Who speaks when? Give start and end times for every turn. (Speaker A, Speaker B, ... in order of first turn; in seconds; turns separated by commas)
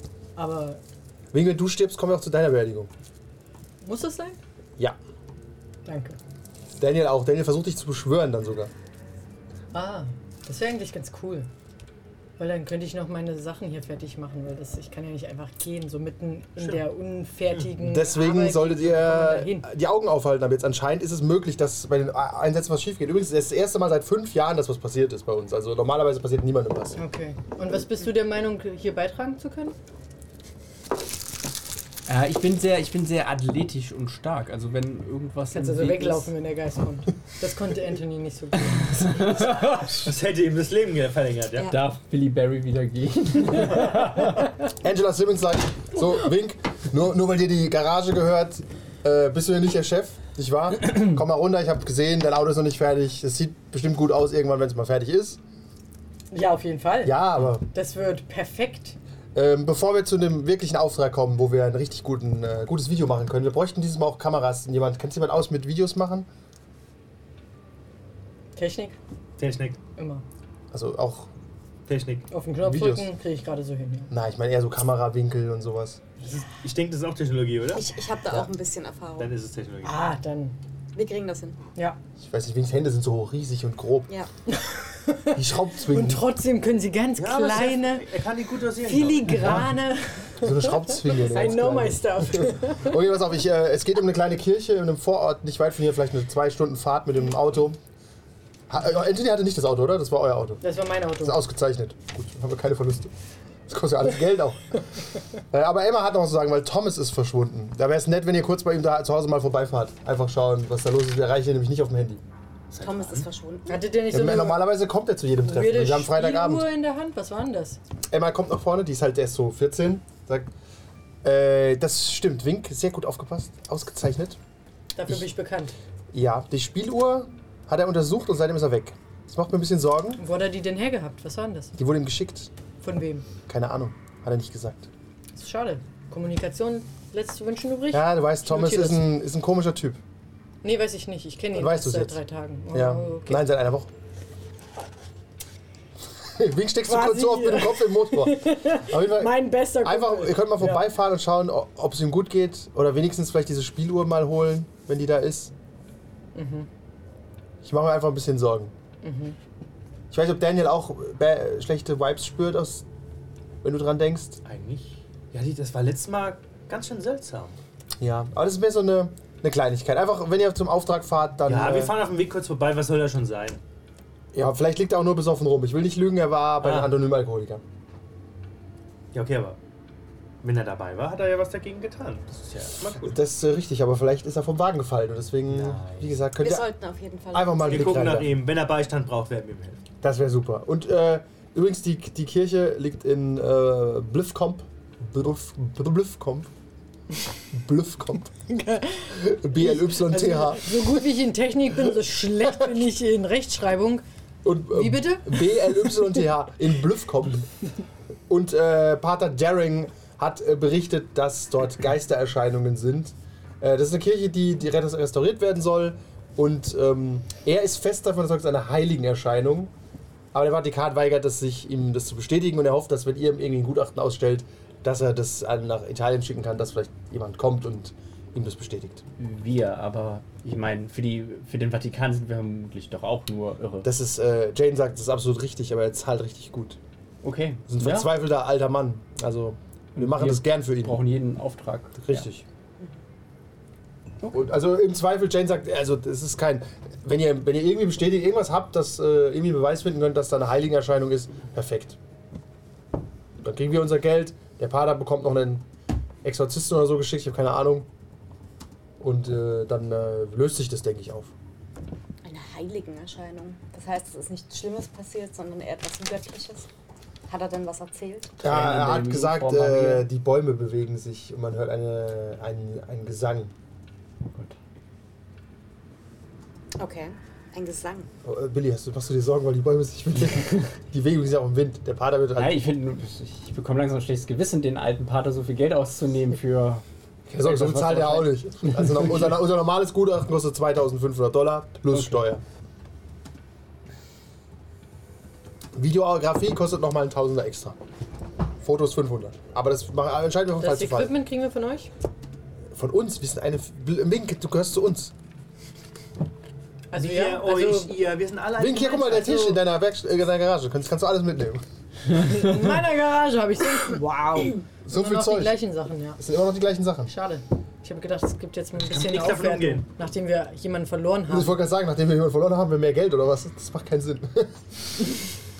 Speaker A: 0.4-0.8, Speaker B: 1.3-2.9, Speaker A: 3.8-4.4, Speaker A: 5.8-6.2, Speaker B: 6.8-8.7, Speaker A: 9.7-11.5, Speaker A: 12.4-19.7, Speaker C: 16.6-16.9, Speaker B: 17.8-27.0, Speaker A: 26.9-29.7, Speaker D: 32.1-36.3, Speaker A: 35.5-39.1, Speaker D: 38.7-40.1, Speaker C: 40.0-41.7, Speaker D: 41.7-44.5, Speaker B: 44.7-55.4, Speaker A: 56.3-59.0, Speaker B: 57.0-57.6, Speaker B: 59.3-66.3, Speaker A: 68.5-69.0, Speaker C: 69.4-69.8, Speaker A: 70.0-70.2, Speaker B: 70.7-71.3, Speaker C: 71.9-72.3, Speaker A: 72.3-74.1, Speaker B: 72.6-73.1, Speaker B: 74.1-76.0, Speaker C: 76.2-77.8, Speaker E: 77.7-79.3, Speaker C: 79.2-80.1, Speaker A: 79.8-80.5, Speaker E: 80.9-81.6, Speaker B: 82.2-84.1, Speaker A: 84.5-88.1, Speaker B: 85.3-86.2, Speaker C: 87.2-89.6, Speaker A: 88.8-93.0, Speaker B: 90.4-97.8, Speaker B: 98.7-100.6, Speaker A: 100.6-101.4, Speaker B: 101.2-103.1, Speaker B: 103.7-104.8, Speaker B: 105.5-112.2, Speaker C: 112.7-113.3, Speaker E: 112.8-113.9, Speaker A: 113.7-114.8, Speaker B: 114.1-116.7, Speaker A: 115.4-117.8, Speaker B: 118.1-120.5, Speaker B: 121.2-124.4, Speaker A: 125.0-125.7, Speaker B: 126.1-130.2, Speaker A: 130.2-131.7, Speaker B: 131.8-132.5, Speaker A: 132.8-133.2, Speaker B: 133.5-134.9, Speaker A: 135.3-139.1, Speaker B: 137.9-140.0, Speaker A: 140.6-143.4, Speaker B: 141.5-142.2, Speaker B: 142.7-143.9, Speaker B: 146.2-155.5, Speaker A: 146.8-150.8, Speaker A: 156.3-156.7, Speaker B: 157.6-158.7, Speaker A: 159.0-159.3, Speaker B: 160.1-162.8, Speaker B: 163.6-164.4, Speaker C: 164.4-167.6, Speaker B: 168.0-172.0, Speaker C: 171.4-173.6, Speaker B: 174.3-177.6, Speaker C: 179.1-179.6, Speaker C: 180.4-183.1, Speaker B: 183.0-186.7, Speaker C: 185.5-186.1, Speaker E: 186.4-188.3, Speaker B: 187.3-188.4, Speaker C: 187.6-189.8, Speaker B: 190.0-196.5, Speaker B: 197.5-198.3, Speaker A: 198.5-204.0, Speaker B: 199.1-201.1, Speaker B: 202.5-202.8, Speaker B: 204.4-207.5, Speaker A: 204.7-205.9, Speaker B: 208.3-219.7, Speaker B: 220.3-229.0, Speaker D: 229.2-233.9, Speaker B: 233.8-236.8, Speaker D: 237.2-238.1, Speaker B: 237.7-241.0, Speaker D: 239.9-242.2, Speaker B: 242.0-242.4, Speaker B: 244.3-252.0, Speaker B: 253.4-255.6, Speaker B: 256.2-257.9, Speaker B: 259.0-261.3, Speaker E: 262.2-266.7, Speaker E: 267.3-268.3, Speaker D: 268.4-270.1, Speaker B: 268.4-273.5, Speaker E: 276.8-278.1, Speaker B: 278.2-282.6, Speaker D: 282.4-286.8, Speaker B: 287.3-292.4, Speaker D: 287.4-289.4, Speaker B: 295.7-297.8, Speaker B: 298.6-301.1, Speaker A: 300.6-301.9, Speaker B: 302.7-305.1, Speaker A: 306.9-308.0, Speaker C: 306.9-309.6, Speaker B: 308.6-311.6, Speaker A: 312.1-316.2, Speaker B: 314.8-315.6, Speaker B: 316.2-317.1, Speaker A: 317.1-321.6, Speaker C: 318.8-319.9, Speaker B: 321.3-324.6